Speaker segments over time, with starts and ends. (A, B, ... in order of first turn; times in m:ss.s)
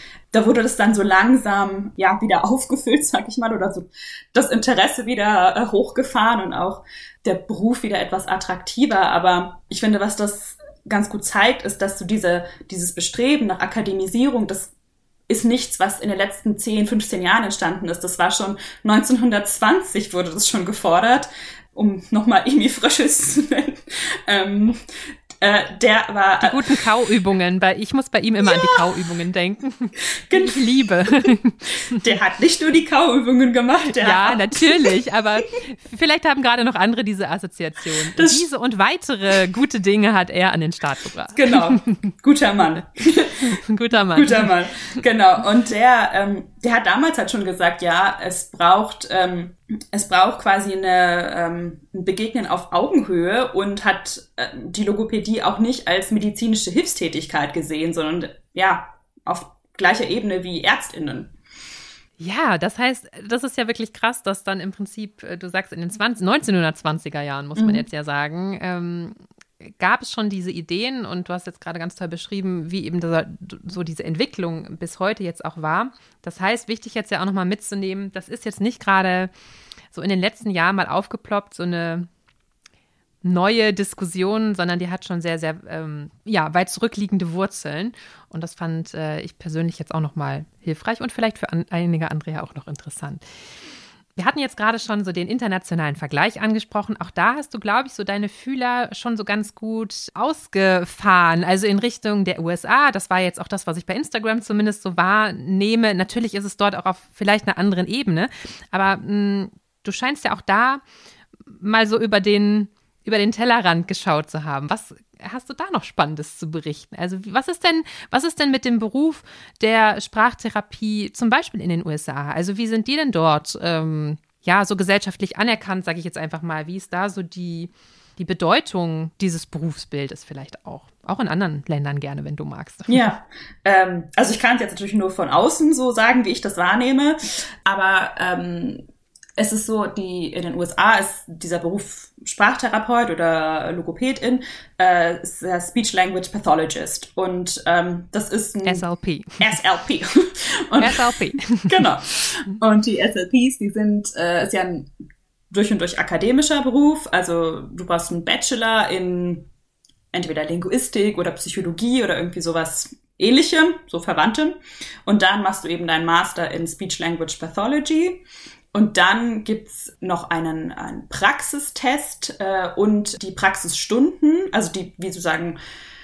0:00.3-0:14.7 A
0:15.3-0:24.8 A
0:25.4-0:26.8 A
0:26.4-0:32.0 B
0:28.4-0:28.8 A
0:30.3-0:30.6 A
0:31.9-0:34.9 A
0:33.9-0:42.1 B
0:38.1-0:38.4 A
0:41.3-0:43.5 A
0:43.2-0:45.0 B
0:44.1-1:01.3 A
1:02.2-1:19.3 B
1:07.6-1:07.9 A
1:19.9-1:22.1 B
1:23.2-1:33.2 B
1:34.2-1:50.8 B
1:51.5-2:13.2 B
2:12.9-2:18.8 A
2:19.4-2:28.8 A
2:28.6-2:29.6 B
2:29.4-2:34.9 A
2:30.8-2:31.9 B
2:35.5-2:39.5 A
2:40.1-2:55.6 A